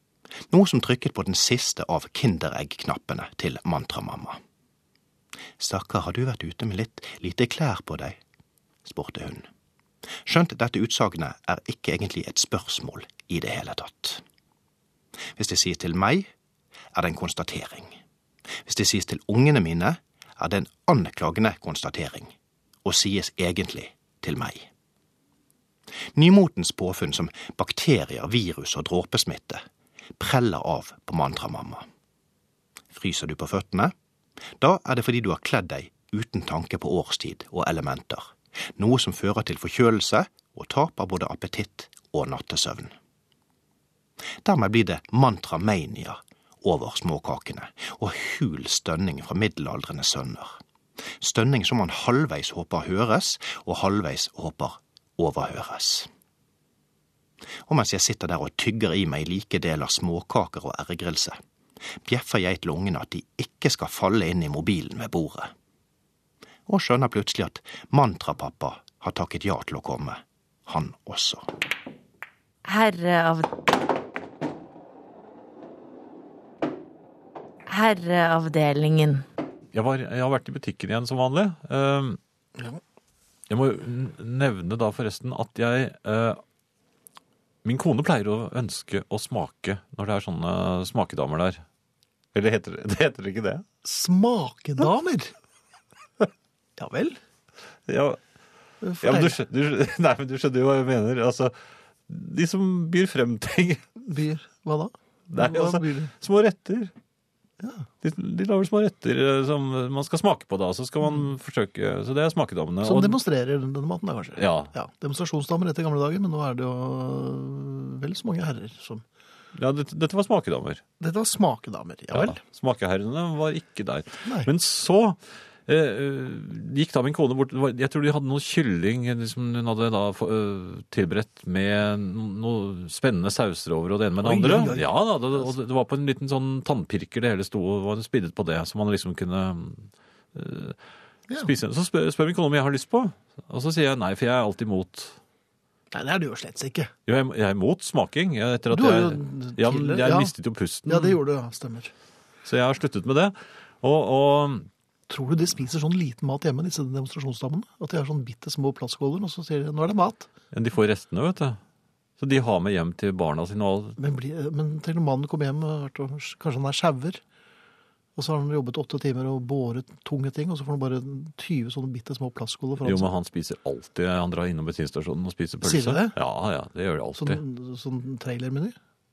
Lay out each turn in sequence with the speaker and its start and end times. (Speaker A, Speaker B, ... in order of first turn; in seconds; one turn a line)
Speaker A: 0.5-4.4
Speaker A: 5.6-8.2
Speaker A: 8.8-9.5
Speaker A: 10.2-14.2
Speaker A: 15.4-16.3
Speaker A: 16.9-18.0
Speaker A: 18.6-22.3
Speaker A: 22.8-24.7
Speaker A: 26.1-29.6
Speaker A: 30.2-31.9
Speaker A: 32.9-33.9
Speaker A: 34.6-42.9
Speaker A: 44.4-50.6
Speaker A: 51.2-56.1
Speaker A: 57.7-61.4
Speaker A: 62.0-65.5
Speaker A: 66.7-71.5
Speaker B: 72.7-73.5
Speaker B: 77.7-79.2
Speaker C: 79.7-82.2
Speaker C: 83.5-86.4
Speaker C: 87.6-91.6
Speaker C: 92.3-93.7
Speaker D: 93.8-95.3
Speaker D: 96.8-97.2
Speaker C: 97.9-98.2
Speaker D: 98.8-99.4
Speaker C: 99.0-101.5
Speaker C: 102.1-103.8
Speaker D: 104.0-106.1
Speaker C: 105.3-106.9
Speaker D: 107.6-107.9
Speaker C: 108.0-113.2
Speaker D: 112.8-119.0
Speaker C: 114.4-114.7
Speaker C: 119.5-120.8
Speaker D: 121.0-122.4
Speaker C: 122.1-140.8
Speaker D: 134.2-134.9
Speaker C: 141.4-145.2
Speaker D: 145.9-146.9
Speaker C: 147.1-151.2
Speaker D: 148.7-150.3
Speaker D: 150.9-151.9
Speaker C: 152.4-154.7
Speaker D: 155.1-160.3
Speaker C: 160.5-161.6
Speaker C: 162.2-164.0
Speaker D: 164.0-167.2
Speaker D: 168.2-173.1
Speaker C: 172.8-177.4
Speaker D: 175.6-176.2
Speaker D: 177.2-178.8